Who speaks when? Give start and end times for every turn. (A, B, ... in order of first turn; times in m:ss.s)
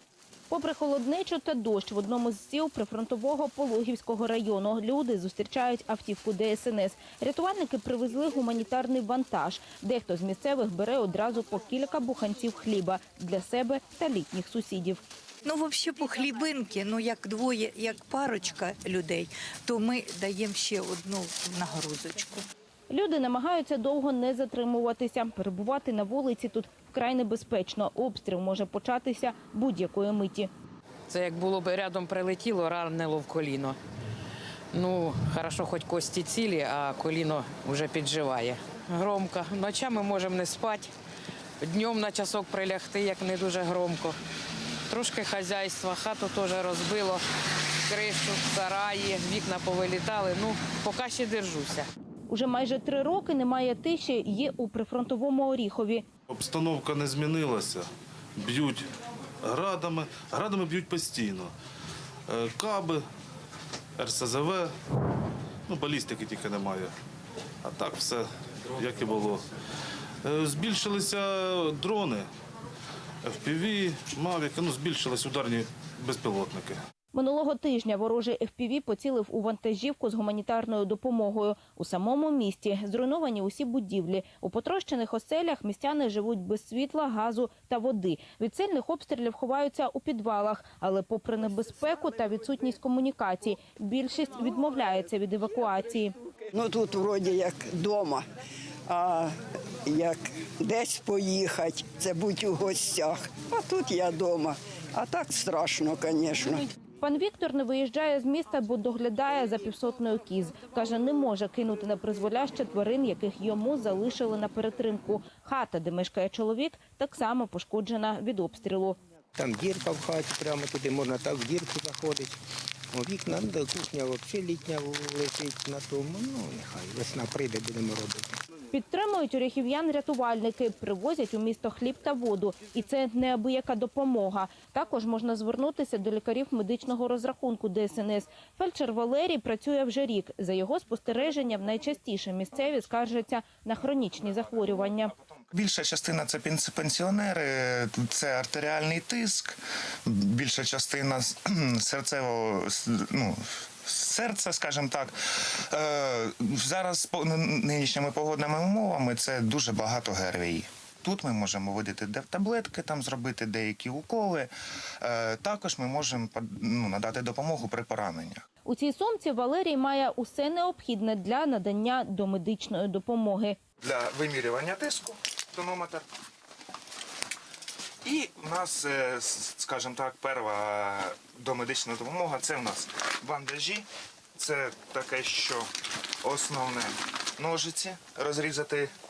0:00.5-0:15.0 A
0:15.4-0:22.4 B
0:22.9-0:30.5 A
0:31.1-0:33.8 C
0:34.7-0:40.9 C
0:41.6-0:44.2 C
0:44.9-0:47.2 C
0:47.9-0:51.9 C
0:52.3-0:56.0 A
0:56.3-0:58.8 D
0:59.4-1:01.5 D
1:02.3-1:03.0 D
1:04.0-1:04.7 D
1:05.7-1:06.9 D
1:07.6-1:09.4 D
1:10.2-1:12.3 D
1:13.2-1:16.8 D
1:17.1-1:36.1 A
1:36.5-1:38.2 E
1:38.9-1:39.3 E
1:39.8-1:46.6 E
1:47.0-1:59.0 A
1:59.4-2:02.4 F
2:02.9-2:08.3 F
2:08.7-2:25.1 A
2:25.5-2:44.5 G
2:45.0-2:48.4 G
2:48.6-2:53.6 A
2:53.8-2:56.0 G
2:58.0-3:05.7 G
3:06.2-3:08.9 G